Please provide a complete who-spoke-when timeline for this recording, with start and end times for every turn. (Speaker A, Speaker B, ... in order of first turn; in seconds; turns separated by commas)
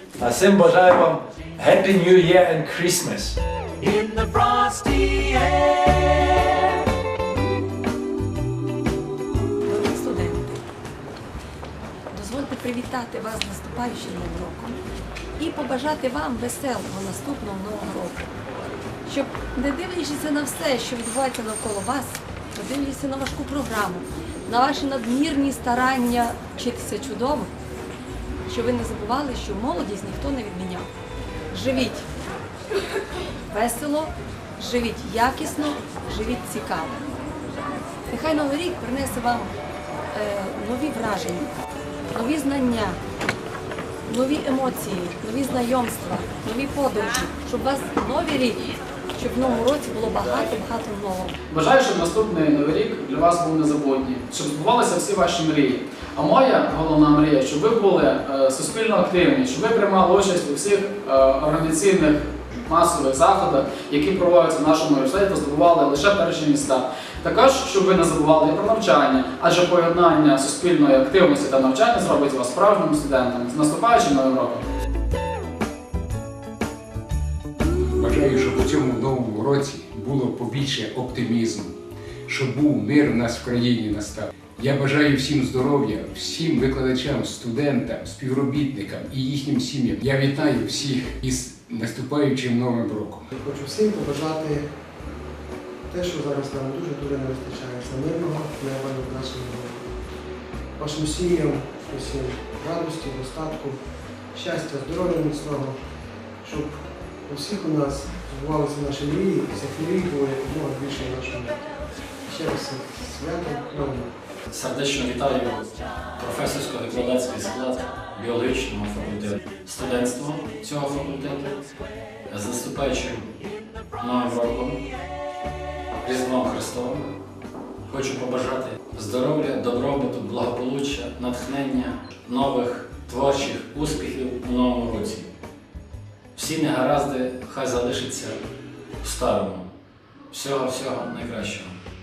Speaker A: 0.2-3.4, Speaker B: 9.7-10.6, Speaker B: 12.1-14.8, Speaker B: 15.4-18.2, Speaker B: 19.1-27.5, Speaker B: 28.5-30.9, Speaker B: 31.5-32.0, Speaker B: 33.5-37.0, Speaker B: 38.1-39.5, Speaker B: 40.1-41.5, Speaker B: 42.1-43.0, Speaker B: 44.1-51.3, Speaker C: 51.5-74.6, Speaker D: 78.0-81.7, Speaker D: 82.3-93.2, Speaker E: 93.3-94.7, Speaker E: 95.9-99.9, Speaker E: 100.8-103.8, Speaker E: 104.3-105.8, Speaker E: 106.4-114.1, Speaker F: 114.5-121.5, Speaker F: 122.3-123.3, Speaker F: 124.0-124.8, Speaker F: 126.0-127.1, Speaker F: 127.9-135.3, Speaker F: 136.3-138.4, Speaker F: 139.0-139.7, Speaker F: 140.3-141.7